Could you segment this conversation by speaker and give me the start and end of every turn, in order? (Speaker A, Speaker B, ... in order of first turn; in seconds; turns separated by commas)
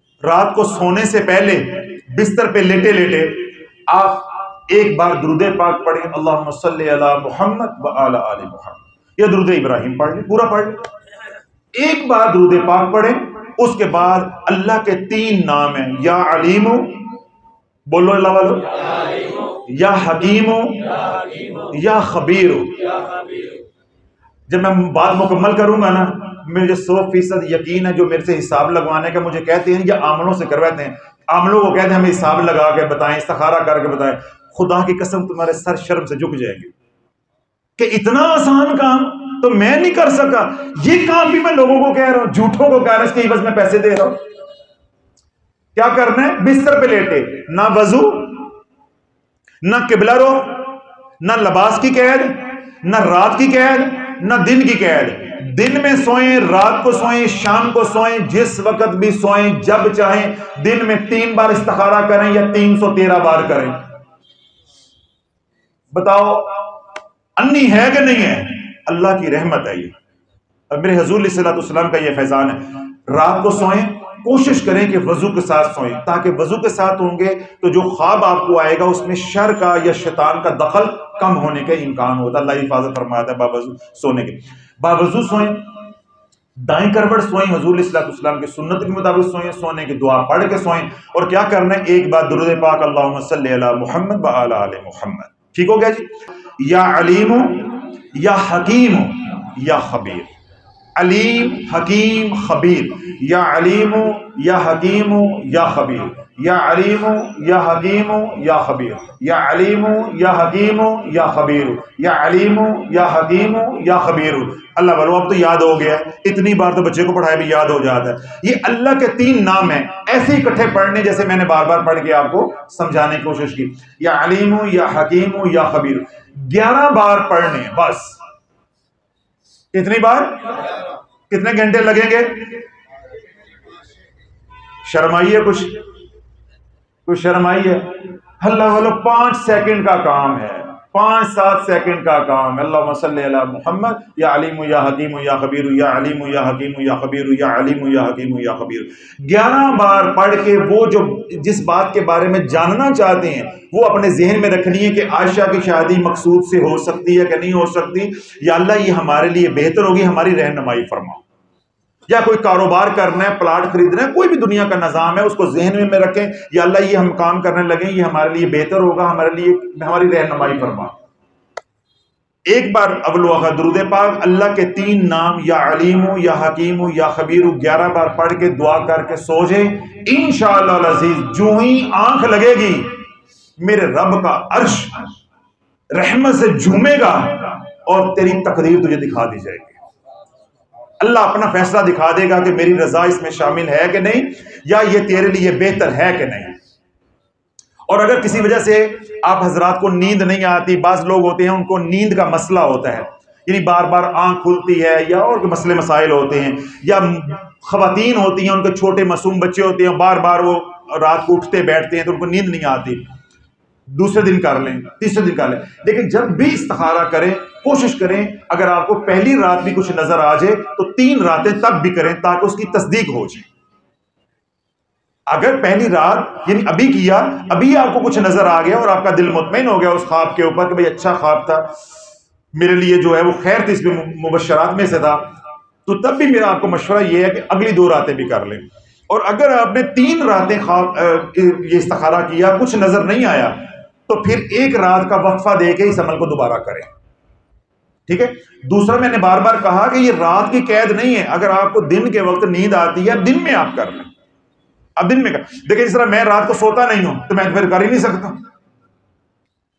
Speaker A: 0.2-10.8, Speaker A: 11.7-17.1, Speaker A: 17.9-23.5, Speaker A: 24.5-36.7, Speaker A: 37.8-44.2, Speaker A: 45.7-48.5, Speaker A: 49.6-63.9, Speaker A: 65.9-66.8, Speaker A: 67.4-69.9, Speaker A: 70.7-85.8, Speaker A: 86.6-100.3, Speaker A: 101.0-128.2, Speaker A: 129.7-130.7, Speaker A: 131.3-132.6, Speaker A: 134.8-135.8, Speaker A: 137.1-161.2, Speaker A: 162.1-171.0, Speaker A: 172.5-183.0, Speaker A: 183.6-185.1, Speaker A: 185.9-189.8, Speaker A: 191.0-196.6, Speaker A: 197.9-213.1, Speaker A: 213.9-223.5, Speaker A: 225.3-231.7, Speaker A: 232.5-246.9, Speaker A: 248.1-254.1, Speaker A: 255.0-258.4